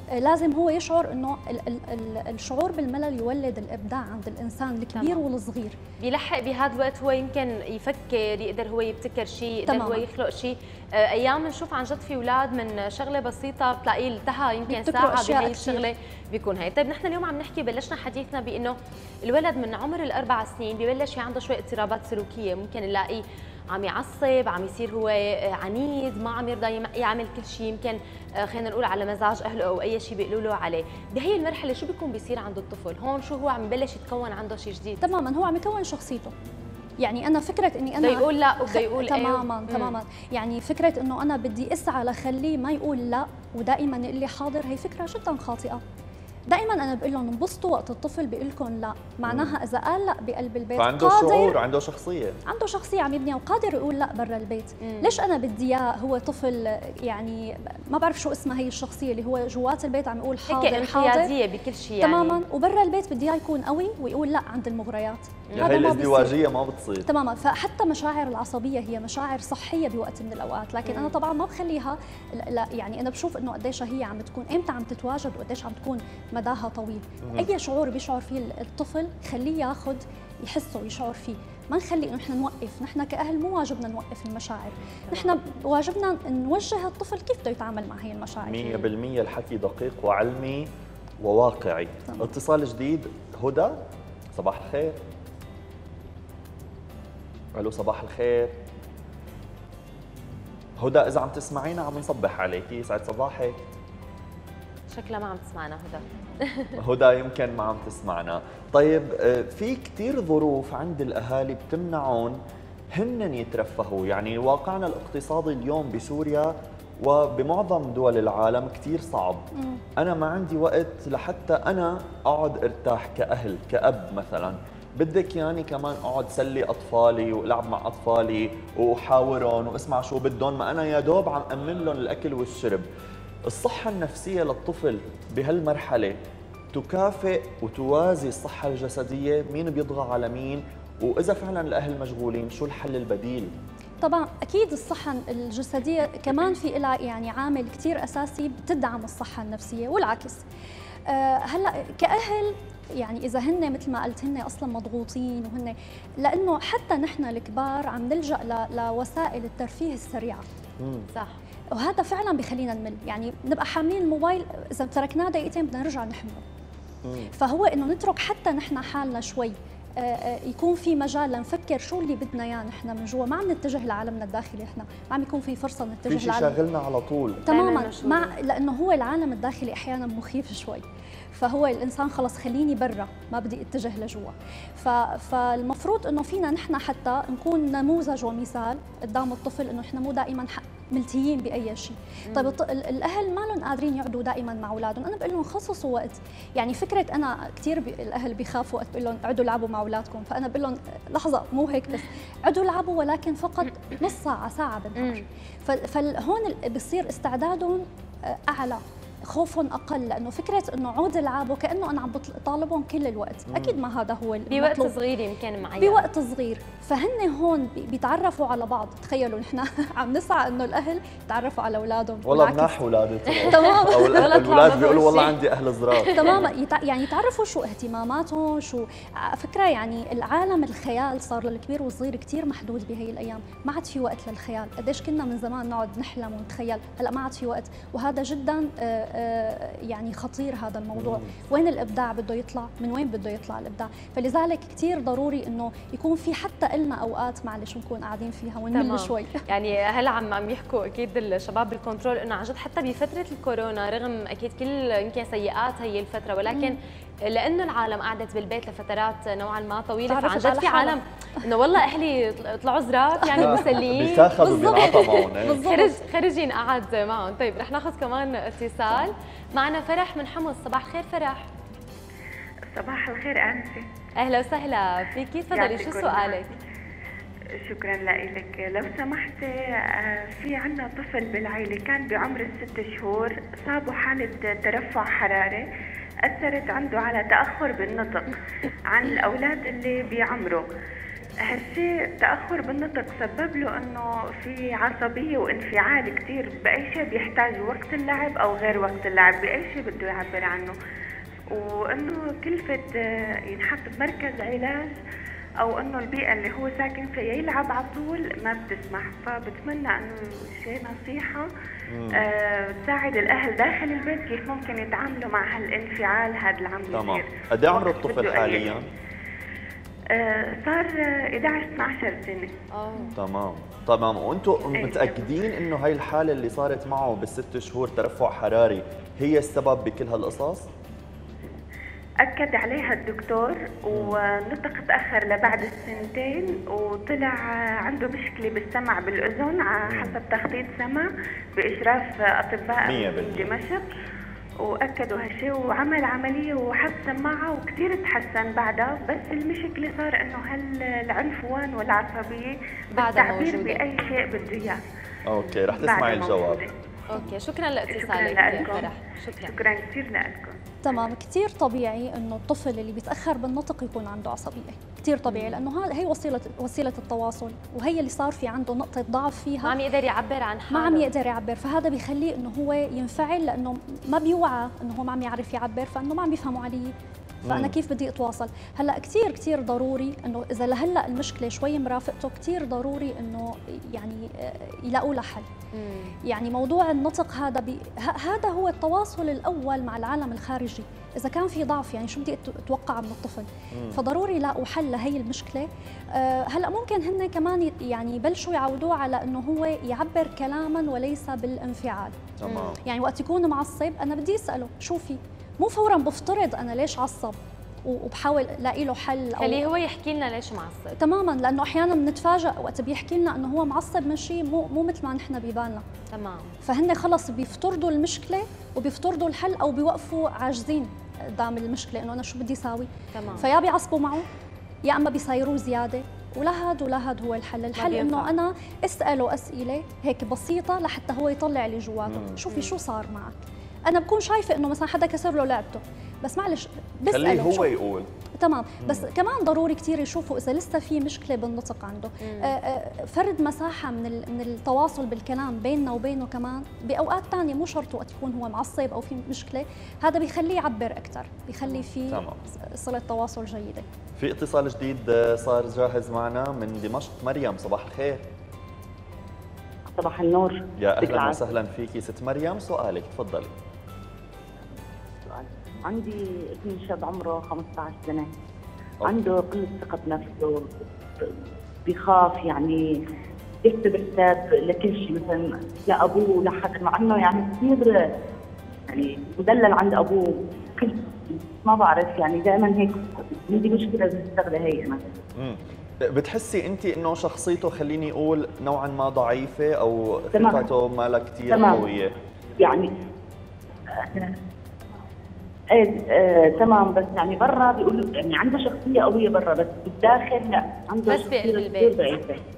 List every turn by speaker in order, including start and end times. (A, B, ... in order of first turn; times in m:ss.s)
0:00.1-0:05.8 A
0:04.9-0:05.2 B
0:06.0-0:35.0 B
0:09.7-0:10.0 A
0:14.7-0:15.8 A
0:35.0-0:36.3 A
0:37.0-0:45.8 A
0:38.0-0:40.0 B
0:46.5-0:51.6 A
0:49.3-0:49.6 C
0:50.8-0:52.4 C
0:52.5-1:01.3 A
0:54.8-0:55.2 B
1:00.5-1:02.4 B
1:02.0-1:06.4 A
1:05.5-1:07.1 C
1:07.0-1:28.9 A
1:10.8-1:11.2 B
1:17.2-1:17.5 C
1:28.4-1:33.8 C
1:34.4-1:35.0 C
1:37.6-1:38.5 C
1:40.8-1:43.6 C
1:44.9-1:46.8 B
1:46.8-1:52.4 C
1:52.9-1:59.4 C
1:59.5-1:59.8 A
2:00.0-2:12.8 C
2:13.5-2:16.2 C
2:16.7-2:23.5 C
2:24.0-2:30.4 A
2:31.1-2:40.4 A
2:40.8-2:41.1 C
2:41.1-2:41.4 B
2:41.7-2:46.4 A
2:47.0-2:47.3 C
2:47.3-2:56.6 A
2:56.1-2:57.4 C
2:57.4-3:00.8 A
2:57.5-2:58.3 B
3:01.3-3:34.9 A
3:12.3-3:12.6 B
3:33.5-3:33.8 C
3:34.5-3:36.0 B
3:35.8-3:42.8 A
3:42.2-3:46.5 C
3:43.5-3:44.5 A
3:43.6-3:45.4 B
3:45.9-3:46.5 B
3:46.1-4:09.4 A
4:01.0-4:01.3 C
4:08.7-4:31.5 B
4:16.5-4:16.8 A
4:20.1-4:21.0 A
4:23.3-4:23.6 A
4:23.4-4:25.6 C
4:24.4-4:26.0 A
4:32.7-4:33.9 D
4:34.2-4:36.5 B
4:35.5-4:36.6 D
4:37.6-4:45.6 D
4:46.3-4:48.3 D
4:48.9-4:50.6 D
4:51.5-5:00.7 D
5:01.5-5:04.9 D
5:05.6-5:11.4 D
5:11.9-5:12.2 C
5:12.1-5:18.9 D
5:16.9-5:18.9 C
5:20.1-5:22.5 D
5:22.7-5:23.1 B
5:23.2-5:30.7 C
5:24.8-5:25.3 D
5:32.2-5:43.9 D
5:33.9-5:34.2 C
5:39.9-5:40.2 C
5:42.8-5:43.5 C
5:44.6-5:54.8 D
5:53.0-5:53.8 B
5:55.3-5:56.6 C
5:55.7-5:56.7 D
5:57.1-5:59.5 B
5:57.9-6:01.0 D
6:00.8-6:09.8 A
6:05.3-6:05.6 B
6:09.6-6:11.1 B
6:10.7-6:16.9 A
6:17.4-6:17.8 C
6:17.4-6:25.5 A
6:25.7-6:26.1 B
6:26.2-6:42.1 A
6:33.7-6:34.0 C
6:42.4-6:42.8 C
6:42.4-6:42.7 B
6:42.8-6:49.7 A
6:49.4-6:50.9 B
6:51.0-6:55.8 A
6:56.1-6:56.5 B
6:56.6-7:04.2 A
7:03.1-7:03.5 B
7:04.8-7:13.3 A
7:07.8-7:08.3 B
7:12.1-7:12.4 C
7:12.5-7:12.7 B
7:13.9-7:17.7 A
7:17.0-7:18.1 C
7:18.4-7:33.8 A
7:22.2-7:22.5 B
7:32.1-7:32.4 C
7:34.2-7:38.2 C
7:39.9-7:41.4 E
7:40.8-7:43.5 C
7:45.2-7:48.3 E
7:49.0-7:51.3 E
7:51.8-7:52.8 E
7:53.6-7:58.0 E
7:58.9-8:05.0 E
8:05.4-8:12.1 C
8:10.3-8:10.7 E
8:11.5-8:11.9 E
8:11.5-8:11.8 B
8:12.6-8:12.9 E
8:14.0-8:14.3 E
8:15.7-8:22.4 E
8:21.1-8:22.0 B